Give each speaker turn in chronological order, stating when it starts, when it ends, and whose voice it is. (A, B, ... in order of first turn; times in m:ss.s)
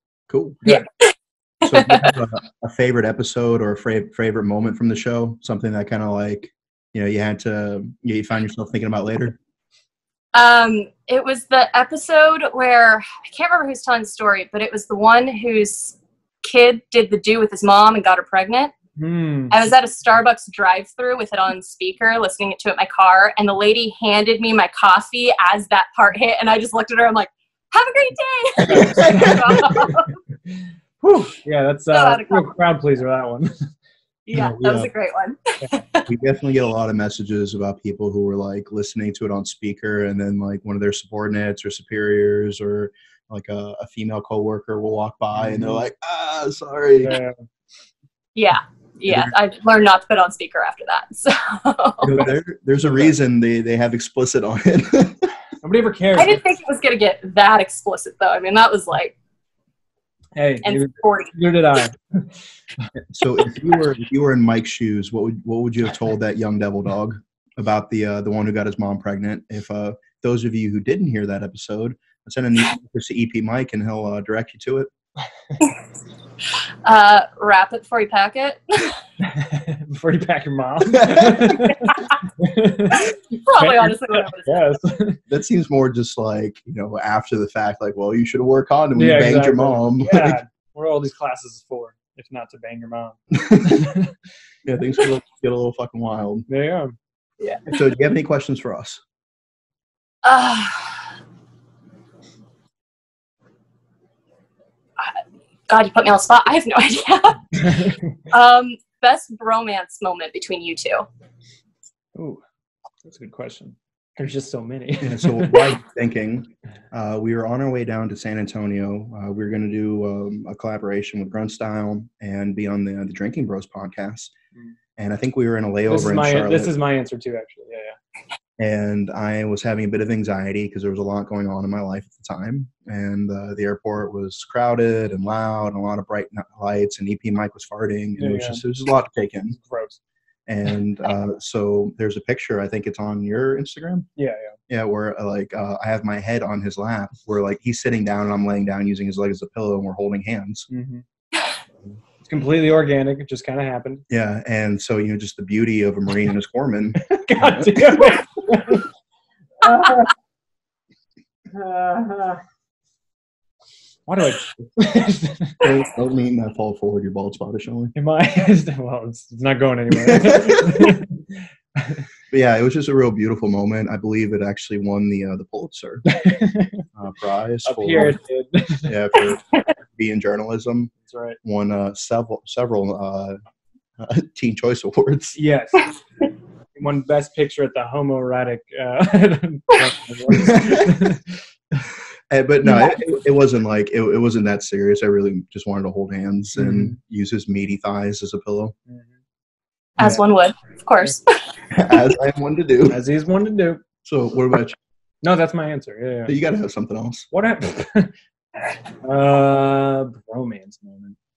0:00.3-0:00.8 A
0:00.7-0:01.1 B
0:01.6-0:09.4 A
0:01.6-0:02.1 B
0:10.3-0:18.8 B
0:19.0-0:19.5 C
0:19.5-0:30.2 B
0:28.8-0:29.2 A
0:28.9-0:29.3 C
0:31.0-0:33.6 C
0:31.9-0:32.5 B
0:34.3-0:36.1 B
0:34.6-0:34.9 A
0:36.1-0:47.1 A
0:45.4-0:45.8 C
0:47.0-0:47.4 C
0:48.4-0:52.3 B
0:49.1-0:49.3 A
0:52.0-0:55.3 A
0:52.8-0:53.1 C
0:55.6-0:56.4 C
0:56.2-0:59.2 B
1:00.4-1:02.0 C
1:00.6-1:01.3 B
1:03.1-1:14.9 A
1:16.8-1:19.0 B
1:19.2-1:21.8 C
1:20.9-1:21.7 A
1:22.4-1:25.2 C
1:23.0-1:24.8 B
1:25.3-1:30.4 A
1:29.0-1:33.2 C
1:33.4-1:33.9 A
1:34.6-1:36.5 A
1:36.5-1:36.9 C
1:37.7-1:39.0 A
1:40.2-1:41.0 B
1:45.7-1:47.6 B
1:48.3-1:51.1 B
1:52.2-1:52.4 C
1:53.0-1:55.6 C
1:55.0-2:04.3 A
2:05.0-2:06.7 A
2:05.9-2:08.0 C
2:08.6-2:19.6 A
2:18.2-2:18.6 C
2:19.6-2:20.0 C
2:20.5-2:24.1 A
2:24.2-2:24.5 C
2:24.7-2:30.7 A
2:30.7-2:31.0 C
2:32.2-2:34.0 C
2:34.1-2:37.0 A
2:37.1-2:38.8 C
2:37.5-2:37.9 A
2:39.6-2:40.1 C
2:41.5-2:42.4 C
2:44.1-2:45.6 C
2:45.6-2:47.9 A
2:48.0-2:51.1 C
2:50.1-2:50.8 A
2:52.3-2:56.1 A
2:56.2-2:56.7 C
2:57.0-2:58.1 A
2:57.6-2:58.9 C
2:58.8-3:00.9 A
3:01.0-3:01.4 C
3:01.4-3:03.4 A
3:04.0-3:05.4 A
3:05.4-3:05.9 C
3:06.8-3:11.2 C
3:10.4-3:10.8 A
3:12.3-3:18.7 A
3:12.6-3:13.0 B
3:16.6-3:16.9 C
3:20.0-3:22.0 B
3:21.7-3:23.0 A
3:22.9-3:23.8 C
3:24.0-3:24.8 A
3:25.2-3:26.3 C
3:26.3-3:27.3 A
3:27.3-3:28.1 C
3:29.0-3:31.2 C